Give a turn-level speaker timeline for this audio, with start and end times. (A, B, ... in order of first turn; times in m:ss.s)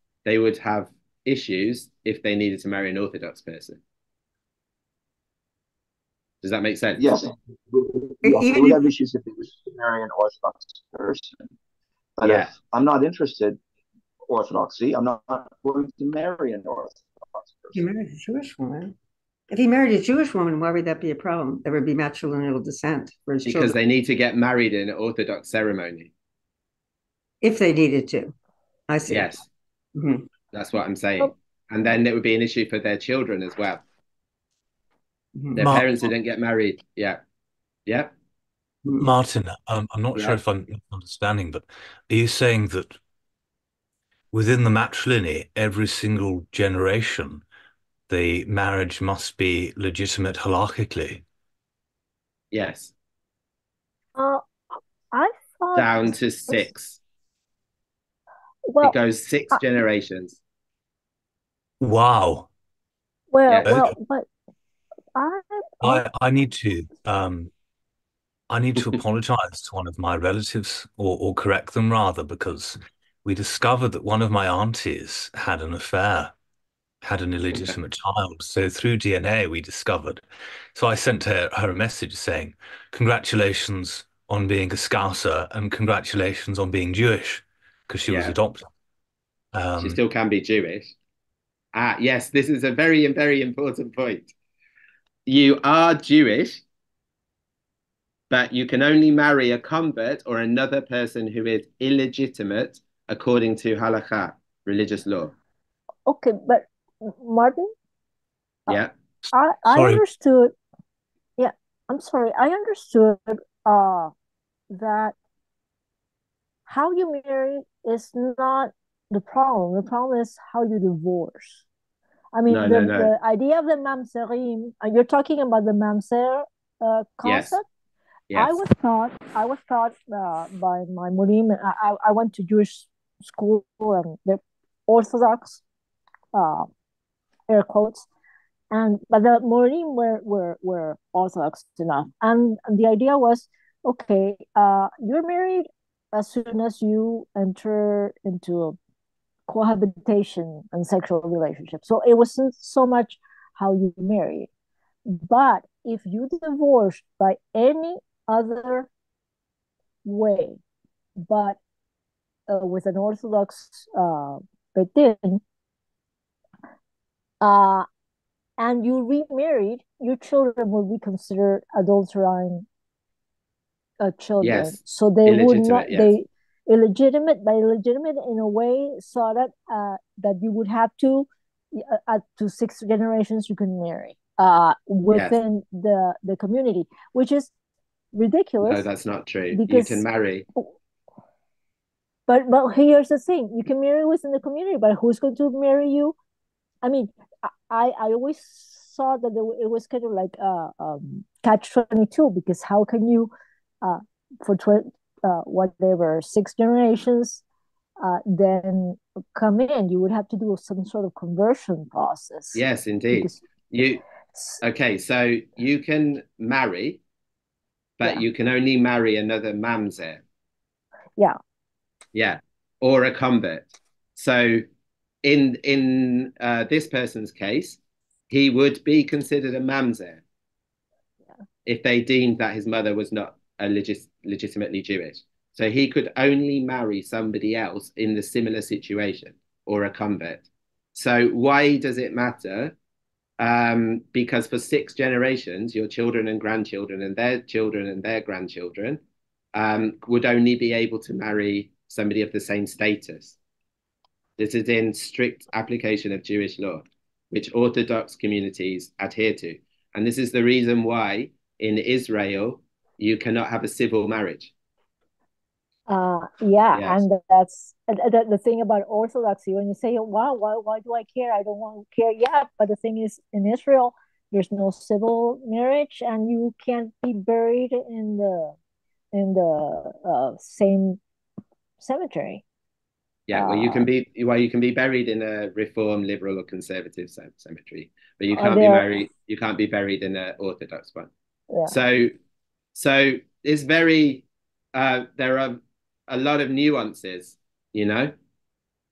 0:00.2-0:03.8 A
0:06.4-0:07.2 A
0:07.0-0:11.5 B
0:08.2-0:08.8 C
0:12.2-0:13.6 B
0:12.2-0:12.5 A
0:14.2-0:17.8 B
0:17.7-0:18.9 C
0:19.5-0:23.8 C
0:23.4-0:26.1 A
0:27.4-0:28.3 C
0:28.9-0:29.4 C
0:29.1-0:29.4 A
0:30.0-0:30.3 C
0:30.5-0:33.8 A
0:35.4-0:35.7 C
0:35.6-0:37.2 A
0:35.6-0:35.9 D
0:38.8-0:39.1 C
0:39.0-0:43.0 D
0:44.3-0:47.4 D
0:48.1-0:51.2 D
0:52.5-0:52.9 A
0:54.2-0:56.7 E
0:55.7-0:57.0 A
0:58.7-0:58.9 E
0:58.8-1:00.4 A
1:01.8-1:02.5 D
1:03.3-1:04.3 E
1:03.6-1:03.9 D
1:05.2-1:06.0 E
1:05.8-1:07.5 D
1:08.5-1:16.3 D
1:17.0-1:28.7 D
1:28.1-1:28.3 A
1:29.5-1:30.0 D
1:29.8-1:30.9 A
1:31.7-1:34.3 A
1:35.2-1:36.6 A
1:38.3-1:45.3 A
1:46.1-1:47.7 E
1:48.7-1:48.9 A
1:49.3-1:50.5 E
1:49.7-1:50.0 D
1:51.4-1:54.1 E
1:54.7-1:55.1 E
1:56.7-2:01.6 E
2:02.3-2:07.6 E
2:02.5-2:03.1 A
2:07.2-2:07.6 A
2:08.3-2:08.6 A
2:08.3-2:15.6 E
2:16.3-2:16.7 E
2:17.5-2:18.1 E
2:18.7-2:28.8 E
2:29.5-2:34.5 E
2:35.1-2:38.9 E
2:40.0-2:40.6 E
2:41.2-2:41.6 E
2:42.5-2:45.4 E
2:47.4-2:47.8 E
2:48.6-2:52.6 E
2:54.0-3:07.5 E
2:54.4-2:56.1 A
3:05.1-3:05.4 A
3:08.1-3:08.8 E
3:08.6-3:10.4 A
3:09.5-3:10.0 E
3:12.3-3:16.1 E
3:16.8-3:23.3 E
3:23.8-3:27.4 E
3:28.0-3:33.4 E
3:32.5-3:34.0 A
3:34.3-3:34.6 E
3:34.6-3:37.0 A
3:38.0-3:40.2 A
3:42.1-3:44.6 A
3:45.2-3:50.2 A
3:51.6-4:02.7 A
4:03.4-4:09.0 A
4:09.5-4:13.4 A
4:14.4-4:24.5 A
4:25.9-4:38.5 E
4:26.7-4:27.0 A
4:39.1-4:41.0 E
4:41.8-4:42.4 E
4:43.3-4:51.1 A
4:43.3-4:43.9 E
4:48.3-4:49.0 E
4:51.5-4:51.8 E
4:51.7-4:52.1 A
4:52.7-4:58.1 A